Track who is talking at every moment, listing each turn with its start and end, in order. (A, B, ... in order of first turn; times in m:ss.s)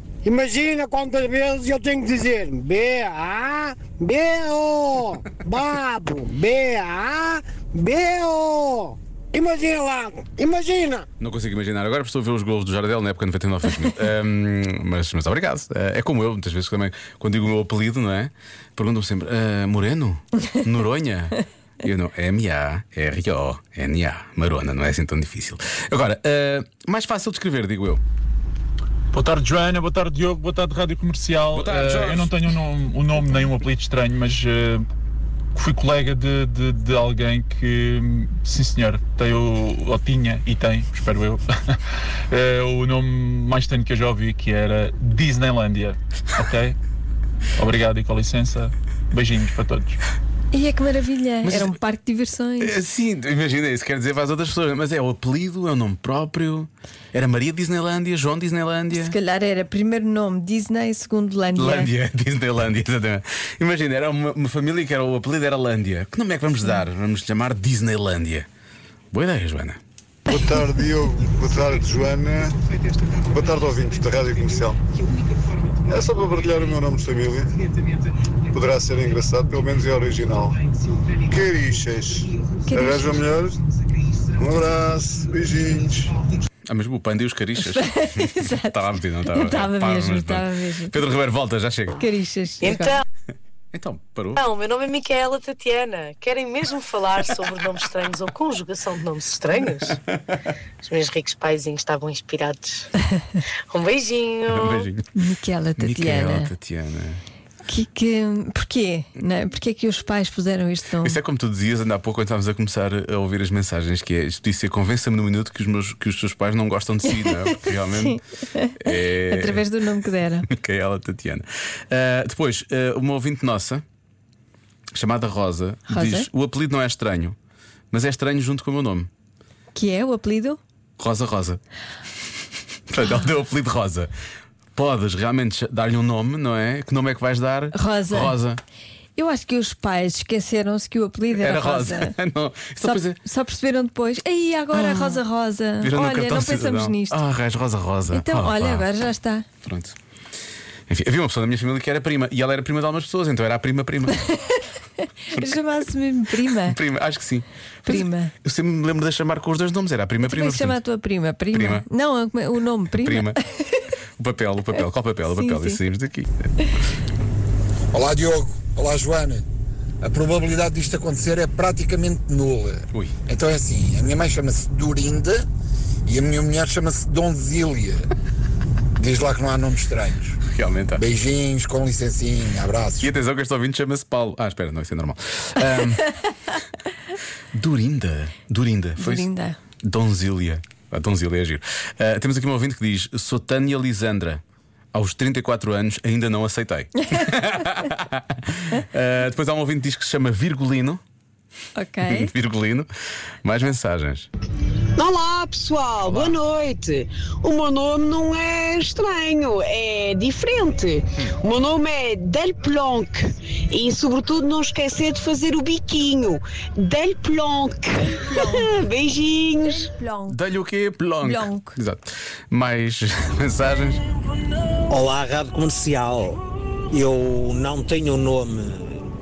0:00.2-0:11.0 A
0:11.2-0:28.0 B
0:29.1-0:34.9 C
0:31.5-0:32.4 B
0:35.5-0:41.8 C
0:42.3-0:46.8 C
0:47.6-0:50.0 C
0:50.5-0:52.8 D
0:51.4-0:51.7 B
0:52.6-0:59.1 B
0:58.9-1:01.9 D
1:01.6-1:08.5 B
1:09.1-1:09.8 B
1:10.3-1:12.5 E
1:13.2-1:14.8 E
1:15.8-1:17.5 E
1:18.5-1:20.6 E
1:21.2-1:23.6 E
1:22.7-1:23.1 D
1:24.4-1:26.2 E
1:26.7-1:32.0 B
1:27.6-1:28.8 D
1:29.3-1:30.9 D
1:32.0-1:33.0 D
1:32.6-1:33.0 F
1:33.7-1:34.4 B
1:34.4-1:40.0 F
1:40.8-1:42.9 F
1:43.7-1:44.9 F
1:44.5-1:45.1 B
1:45.1-1:46.5 D
1:45.8-1:47.2 B
1:47.7-1:51.2 D
1:51.0-1:58.2 B
1:57.2-2:00.5 D
1:58.8-1:59.7 B
2:00.4-2:03.8 B
2:04.9-2:07.4 B
2:05.9-2:06.3 D
2:07.9-2:09.1 B
2:09.7-2:10.6 D
2:11.0-2:11.6 B
2:12.9-2:14.1 B
2:14.7-2:18.6 B
2:17.7-2:18.4 D
2:19.2-2:22.2 D
2:21.3-2:23.2 B
2:22.8-2:27.2 D
2:24.7-2:25.2 B
2:25.8-2:28.9 B
2:28.1-2:29.4 D
2:29.6-2:30.0 B
2:30.9-2:34.2 B
2:34.2-2:36.8 D
2:36.6-2:40.8 B
2:37.8-2:38.3 D
2:40.3-2:43.9 D
2:41.5-2:41.8 B
2:43.0-2:43.4 B
2:44.2-2:46.5 B
2:45.3-2:45.8 D
2:47.9-2:49.4 G
2:50.0-2:55.4 G
2:56.0-2:58.0 G
2:59.0-3:00.4 G
3:00.5-3:01.0 B
3:01.0-3:03.1 G
3:03.0-3:06.1 B
3:07.5-3:09.3 B
3:09.0-3:09.6 D
3:09.8-3:14.4 B
3:14.9-3:21.0 B
3:21.8-3:22.3 D
3:22.0-3:22.9 B
3:23.4-3:24.3 B
3:25.0-3:39.9 H
3:26.0-3:26.4 B
3:38.1-3:38.7 D
3:39.6-3:40.4 D
3:40.3-3:44.0 B
3:41.2-3:41.8 D
3:44.9-3:49.0 I